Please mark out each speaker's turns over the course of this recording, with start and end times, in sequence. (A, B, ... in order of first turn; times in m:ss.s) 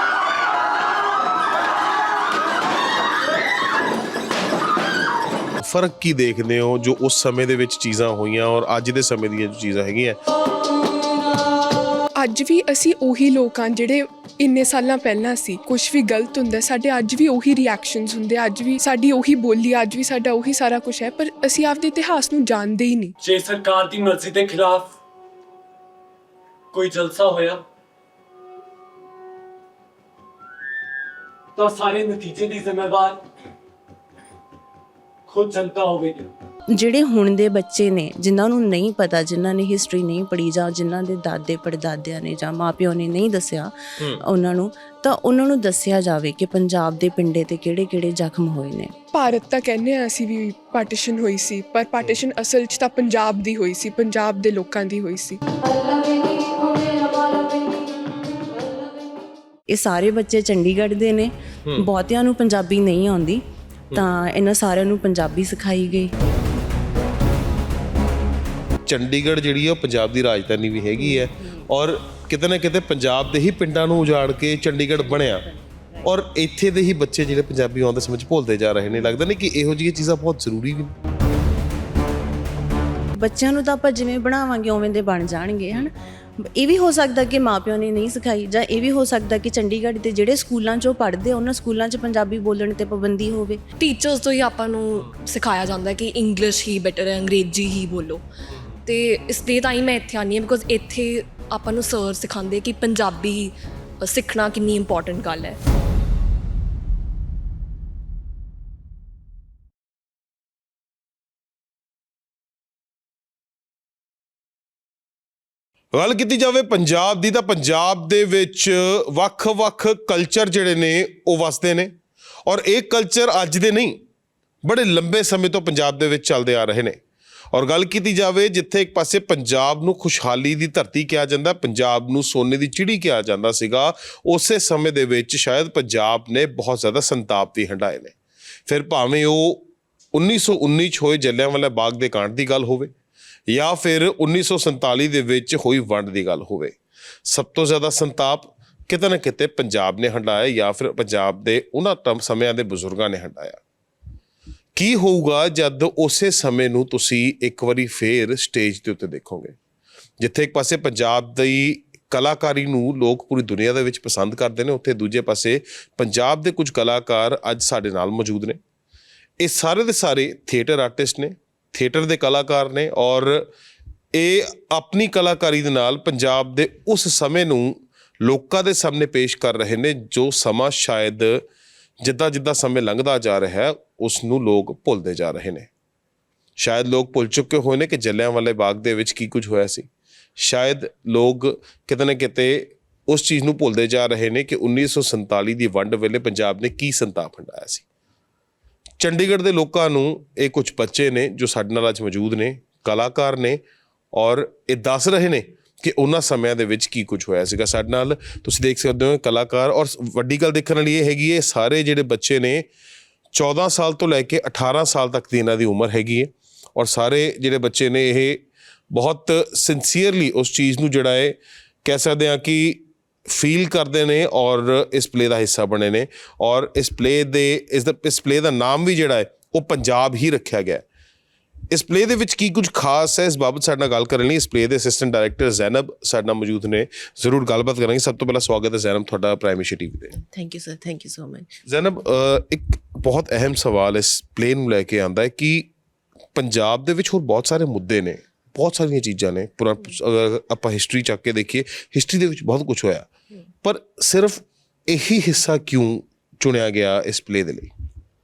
0:05.6-0:10.2 A
0:12.2-0:23.2 B
0:23.2-0:25.0 C
0:26.7-0:27.6 C
0:31.6-0:33.3 C
0:35.3-0:36.3 C
0:36.7-0:48.9 D
0:49.1-0:55.4 B
0:59.7-1:03.4 D
1:03.9-1:06.1 D
1:08.9-1:15.5 A
1:16.0-1:20.9 A
1:23.2-1:33.6 D
1:33.8-1:38.2 E
1:38.5-1:38.8 A
1:38.9-1:45.6 E
1:55.9-2:01.9 A
2:02.4-2:04.0 A
2:04.6-2:07.0 A
2:07.5-2:18.1 A
2:18.7-2:22.9 A
2:23.5-2:33.6 A
2:34.8-2:39.6 A
2:40.2-2:48.6 A
2:49.4-2:53.5 A
2:54.1-3:01.4 A
3:02.0-3:05.7 A
3:06.6-3:09.9 A
3:10.4-3:17.8 A
3:19.0-3:23.6 A
3:24.1-3:32.7 A
3:33.3-3:50.8 A
3:51.7-4:00.2 A
4:00.2-4:01.5 D
4:01.7-4:05.7 A
4:06.4-4:13.1 A
4:13.6-4:17.7 A